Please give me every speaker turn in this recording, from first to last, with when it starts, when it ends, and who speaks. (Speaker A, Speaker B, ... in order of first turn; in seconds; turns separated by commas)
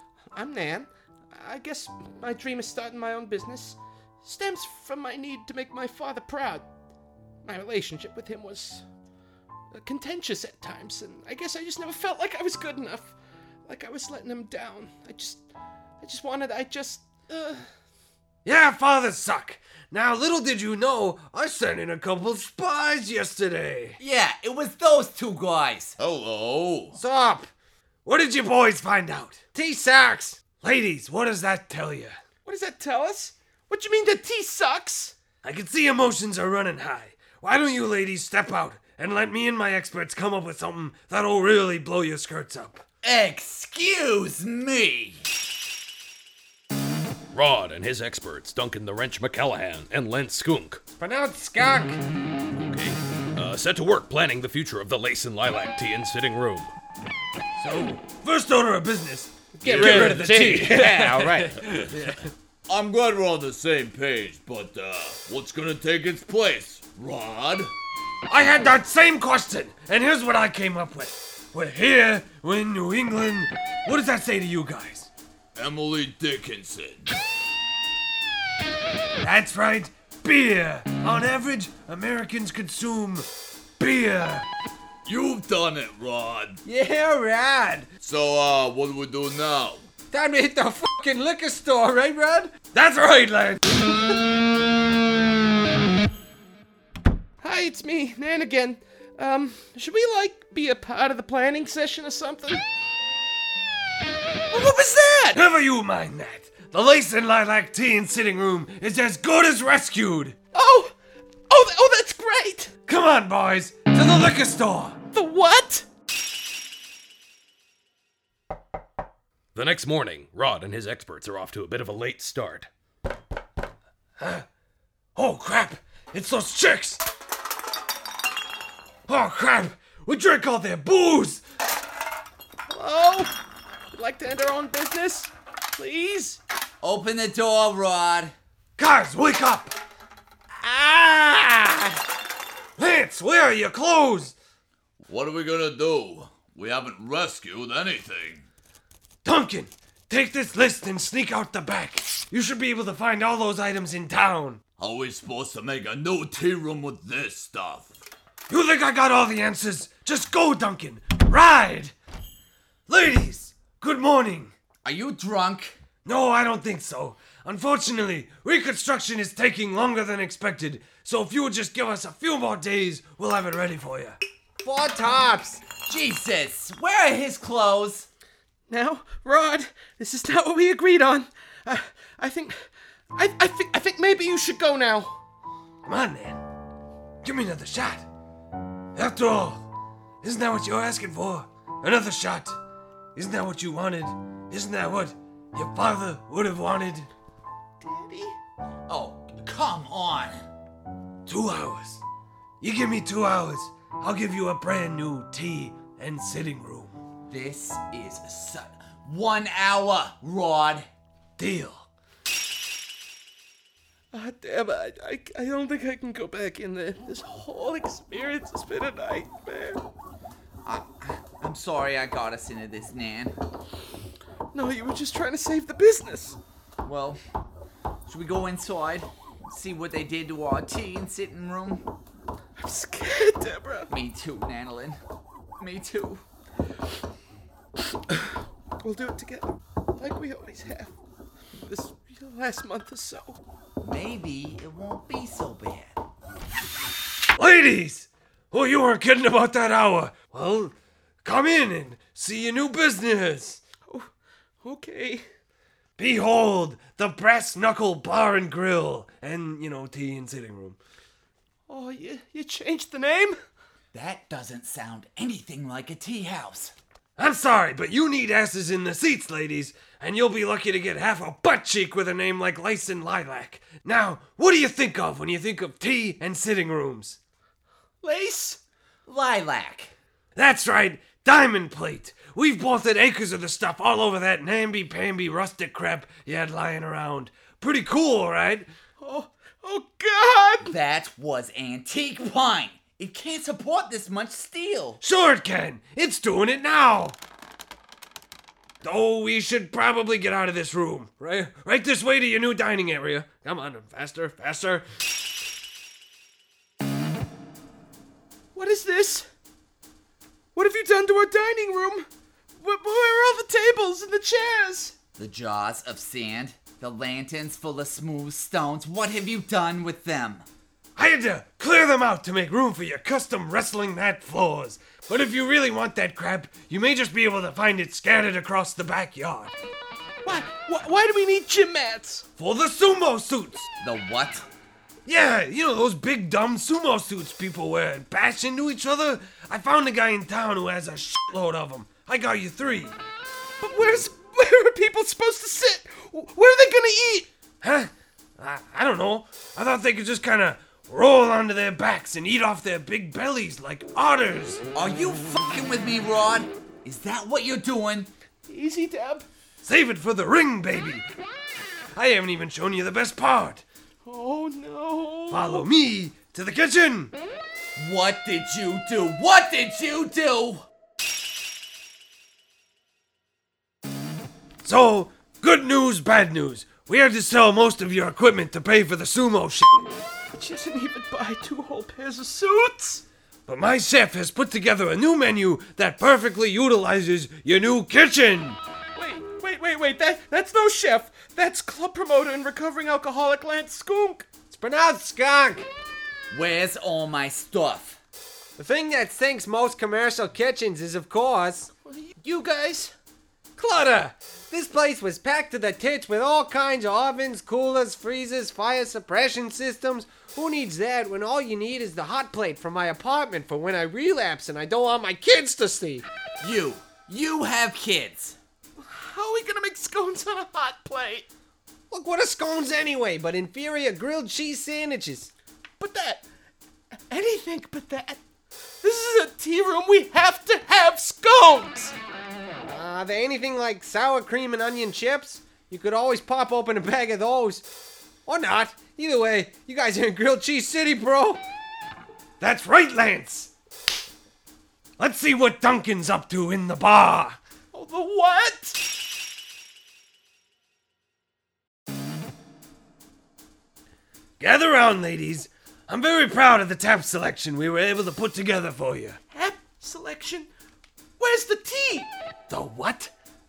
Speaker A: 0.3-6.6, Speaker A: 7.4-8.8, Speaker A: 9.7-13.1, Speaker A: 13.7-15.4, Speaker A: 16.0-17.6, Speaker B: 18.4-24.0, Speaker C: 24.0-26.0, Speaker D: 26.0-27.0, Speaker B: 26.9-27.5, Speaker B: 28.0-32.2, Speaker A: 32.4-35.1, Speaker B: 35.4-42.8, Speaker C: 43.0-45.2, Speaker E: 47.3-50.8, Speaker B: 50.9-52.0, Speaker E: 52.5-56.7, Speaker B: 57.6-62.3, Speaker A: 59.6-61.5, Speaker D: 62.7-67.7, Speaker B: 68.3-75.1, Speaker D: 75.5-77.1, Speaker B: 79.2-83.2, Speaker B: 83.8-84.5, Speaker D: 85.0-86.6, Speaker B: 86.7-87.9, Speaker D: 88.0-89.9, Speaker B: 90.1-94.0, Speaker A: 97.4-102.6, Speaker A: 104.5-105.4, Speaker B: 105.3-110.4, Speaker A: 110.5-110.9, Speaker A: 111.5-112.7, Speaker B: 112.9-115.0, Speaker A: 115.1-115.8, Speaker E: 119.5-122.7, Speaker B: 124.2-124.4, Speaker B: 125.2-127.0, Speaker B: 129.1-131.4, Speaker A: 132.7-133.3, Speaker A: 133.9-136.4, Speaker C: 136.8-138.3, Speaker B: 138.8-139.7, Speaker A: 140.6-141.8, Speaker B: 142.8-144.3, Speaker D: 145.0-148.5, Speaker B: 149.2-154.6, Speaker D: 154.8-158.0, Speaker B: 158.5-161.9, Speaker B: 162.9-164.5, Speaker C: 164.8-165.8, Speaker B: 166.0-174.2, Speaker C: 175.7-178.1, Speaker A: 178.7-185.2, Speaker B: 185.8-186.4, Speaker B: 187.2-188.0, Speaker B: 188.9-189.7, Speaker B: 190.2-192.6, Speaker B: 193.1-197.1, Speaker A: 197.8-198.4, Speaker C: 198.9-200.4, Speaker B: 201.2-202.0, Speaker B: 202.6-206.9, Speaker C: 207.3-210.9, Speaker B: 211.4-211.9, Speaker A: 214.1-219.8, Speaker C: 220.6-223.3, Speaker A: 224.5-226.4, Speaker C: 226.8-227.2, Speaker C: 228.1-231.8, Speaker A: 232.6-233.9, Speaker C: 233.9-235.0, Speaker C: 235.6-236.2, Speaker A: 238.8-240.9, Speaker A: 241.5-243.4, Speaker C: 243.8-245.9, Speaker B: 247.4-250.7, Speaker B: 251.2-253.6, Speaker A: 254.6-255.2, Speaker B: 256.0-260.8, Speaker A: 261.7-263.4, Speaker C: 263.9-266.7, Speaker B: 267.2-277.2, Speaker A: 278.0-278.6, Speaker C: 279.1-279.9, Speaker B: 280.3-288.7, Speaker A: 289.0-290.7, Speaker C: 290.6-295.0, Speaker B: 295.0-297.2, Speaker B: 298.8-304.8, Speaker A: 308.5-309.3, Speaker A: 310.5-314.9, Speaker C: 315.2-320.4, Speaker B: 320.9-329.5, Speaker A: 330.2-332.2, Speaker B: 332.4-333.7, Speaker C: 333.8-334.4, Speaker B: 335.1-342.9, Speaker A: 343.6-347.3, Speaker B: 347.6-354.6, Speaker C: 354.7-358.1, Speaker A: 358.5-359.2, Speaker B: 359.6-361.0, Speaker B: 361.9-363.6, Speaker A: 364.0-365.6, Speaker B: 365.3-367.1, Speaker C: 367.8-370.6, Speaker B: 374.6-379.9, Speaker A: 380.3-383.0, Speaker B: 383.5-388.6, Speaker A: 388.9-394.3, Speaker B: 394.5-395.7, Speaker C: 396.3-398.0, Speaker B: 398.6-401.7, Speaker A: 401.8-402.9, Speaker B: 403.6-416.0, Speaker C: 416.4-418.4, Speaker A: 418.8-421.2, Speaker B: 421.9-425.3, Speaker A: 425.8-426.2, Speaker A: 427.1-428.2, Speaker A: 428.8-431.9, Speaker B: 432.6-437.6, Speaker B: 438.2-441.4, Speaker B: 442.4-443.5, Speaker B: 445.0-447.4, Speaker A: 447.7-448.8, Speaker B: 454.4-459.2, Speaker A: 459.3-460.5, Speaker A: 461.2-462.1, Speaker B: 462.5-463.1